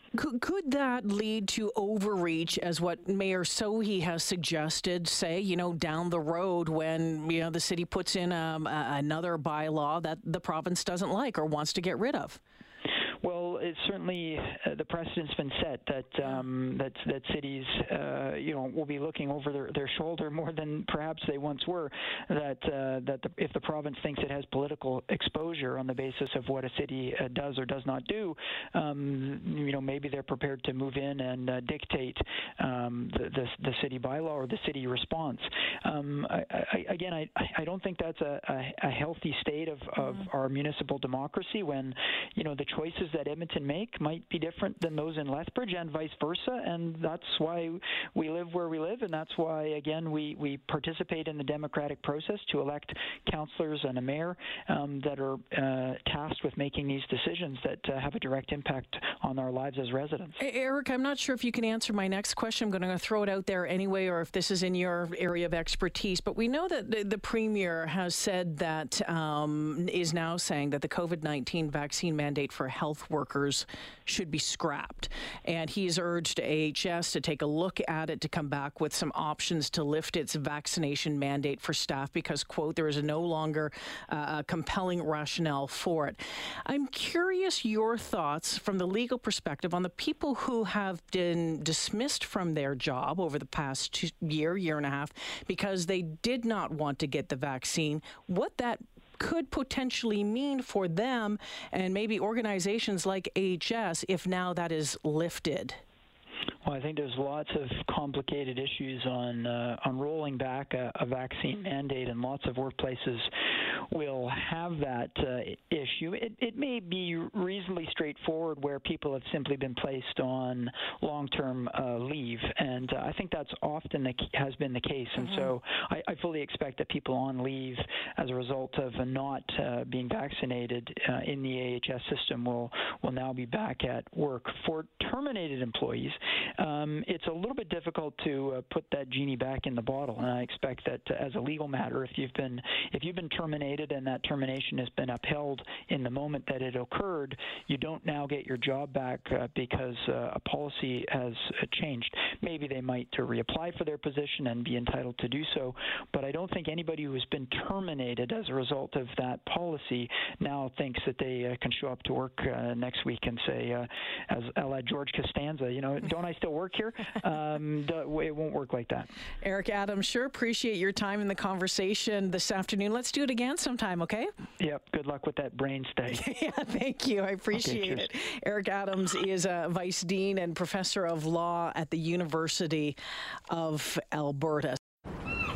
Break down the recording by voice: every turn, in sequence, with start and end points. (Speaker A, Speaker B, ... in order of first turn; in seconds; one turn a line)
Speaker A: 0.1-12.4
Speaker B: 13.2-60.4
Speaker A: 60.4-105.8
Speaker B: 106.6-113.3
Speaker B: 113.9-169.1
Speaker A: 169.4-174.3
Speaker B: 174.6-176.2
Speaker A: 176.1-183.0
Speaker B: 177.5-178.1
Speaker A: 183.5-184.8